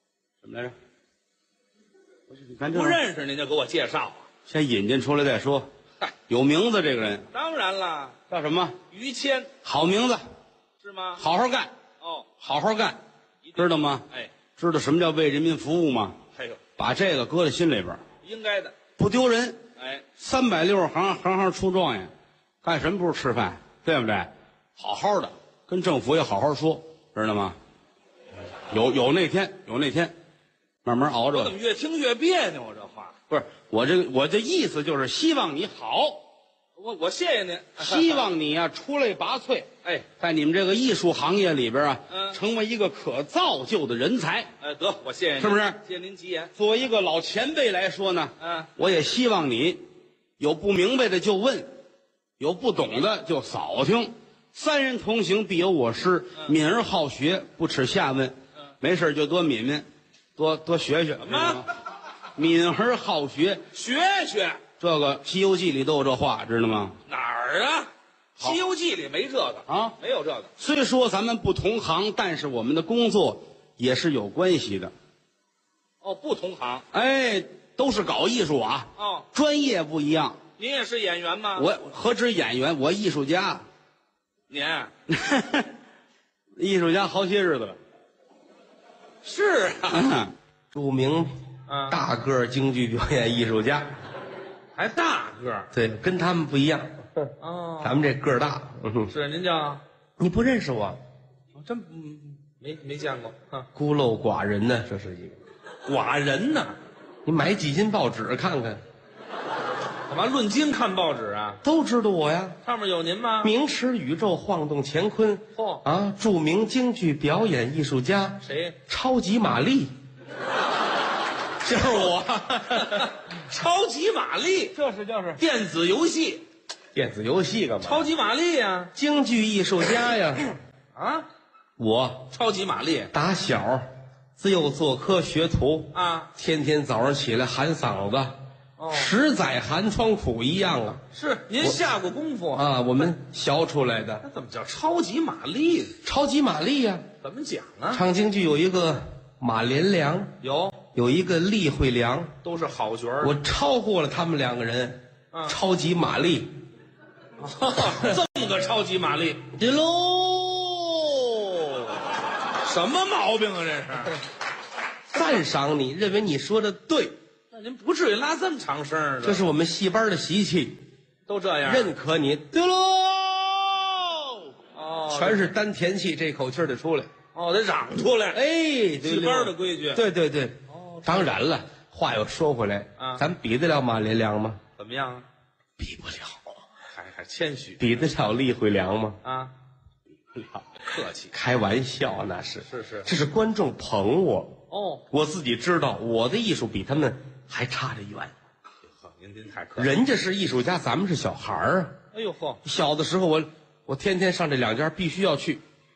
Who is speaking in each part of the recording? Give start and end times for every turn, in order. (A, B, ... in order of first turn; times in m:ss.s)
0:00.4-0:00.7 A
0:02.3-0:03.0 A
0:02.7-0:04.3 B
0:04.5-0:05.7 A
0:06.3-0:07.3 A
0:07.3-0:08.2 B
0:08.3-0:08.8 A
0:08.9-0:09.5 B
0:09.6-0:10.2 A
0:10.8-0:11.2 B
0:11.2-0:11.7 A
0:12.0-0:12.3 B
0:12.4-0:13.0 A
0:13.4-0:14.3 B
0:13.5-0:14.0 A
0:14.6-0:16.2 A
0:16.8-0:18.0 A
0:18.2-0:18.7 B
0:19.0-0:19.6 A
0:19.8-0:20.0 B
0:20.2-0:22.1 A
0:22.6-0:27.6 A
0:28.7-0:30.1 A
0:30.8-0:31.5 A
0:31.3-0:33.1 B
0:33.3-0:36.2 A
0:36.8-0:38.2 B
0:37.8-0:44.5 A
0:42.1-0:42.4 B
0:44.6-0:46.5 B
0:45.4-0:45.8 A
0:46.6-0:49.8 A
0:48.4-0:48.7 B
0:50.4-0:51.7 A
0:52.4-0:59.8 A
1:00.4-1:01.6 A
1:01.2-1:01.6 B
1:02.4-1:03.6 A
1:03.7-1:04.6 B
1:04.8-1:07.0 A
1:07.1-1:10.5 B
1:09.7-1:09.9 A
1:10.6-1:14.9 A
1:16.0-1:16.8 B
1:16.9-1:20.4 A
1:19.0-1:19.2 B
1:20.6-1:21.6 B
1:21.5-1:23.6 A
1:24.5-1:24.9 B
1:25.1-1:25.7 A
1:26.6-1:27.7 A
1:29.2-1:30.0 B
1:29.9-1:30.3 A
1:30.7-1:31.3 C
1:31.7-1:32.0 B
1:31.9-1:33.9 C
1:34.8-1:35.7 B
1:35.7-1:39.1 C
1:37.4-1:38.0 B
1:39.1-1:39.8 B
1:40.2-1:41.0 C
1:41.6-1:43.6 B
1:43.7-1:45.4 C
1:45.8-1:46.7 B
1:47.2-1:48.8 C
1:50.1-1:51.6 B
1:51.6-1:52.6 C
1:52.6-1:53.5 B
1:53.4-2:00.0 C
1:55.6-1:55.8 B
1:58.4-1:58.8 B
2:01.6-2:03.1 C
2:02.8-2:04.8 B
2:04.8-2:05.4 C
2:05.4-2:06.4 B
2:06.9-2:08.1 C
2:07.8-2:08.9 B
2:08.9-2:10.5 C
2:10.9-2:11.2 B
2:11.8-2:12.3 C
2:12.3-2:13.1 B
2:13.1-2:18.4 C
2:15.9-2:16.3 B
2:18.8-2:19.1 B
2:18.9-2:21.0 C
2:21.1-2:23.1 B
2:22.5-2:24.2 C
2:24.2-2:25.9 B
2:26.0-2:27.1 C
2:27.2-2:28.0 B
2:27.9-2:30.4 C
2:30.4-2:30.8 B
2:30.9-2:32.3 C
2:32.4-2:33.3 B
2:33.2-2:36.6 C
2:37.4-2:39.4 B
2:39.5-2:41.9 C
2:42.6-2:44.2 B
2:45.1-2:47.2 C
2:47.5-2:49.4 B
2:49.2-2:50.8 C
2:51.3-2:51.9 B
2:51.6-2:54.4 C
2:54.7-2:55.6 B
2:55.1-2:57.1 C
2:57.3-2:58.4 B
2:58.3-3:04.6 C
2:59.0-3:00.0 B
3:00.7-3:01.4 B
3:03.0-3:03.2 B
3:04.8-3:05.2 B
3:05.8-3:06.5 C
3:06.9-3:07.9 B
3:07.8-3:09.2 C
3:09.2-3:09.5 B
3:10.4-3:10.6 C
3:10.8-3:11.3 B
3:11.3-3:14.6 C
3:12.7-3:13.1 B
3:14.7-3:15.0 B
3:15.1-3:18.3 C
3:19.0-3:19.9 B
3:19.8-3:22.0 C
3:22.1-3:22.6 B
3:22.6-3:25.6 C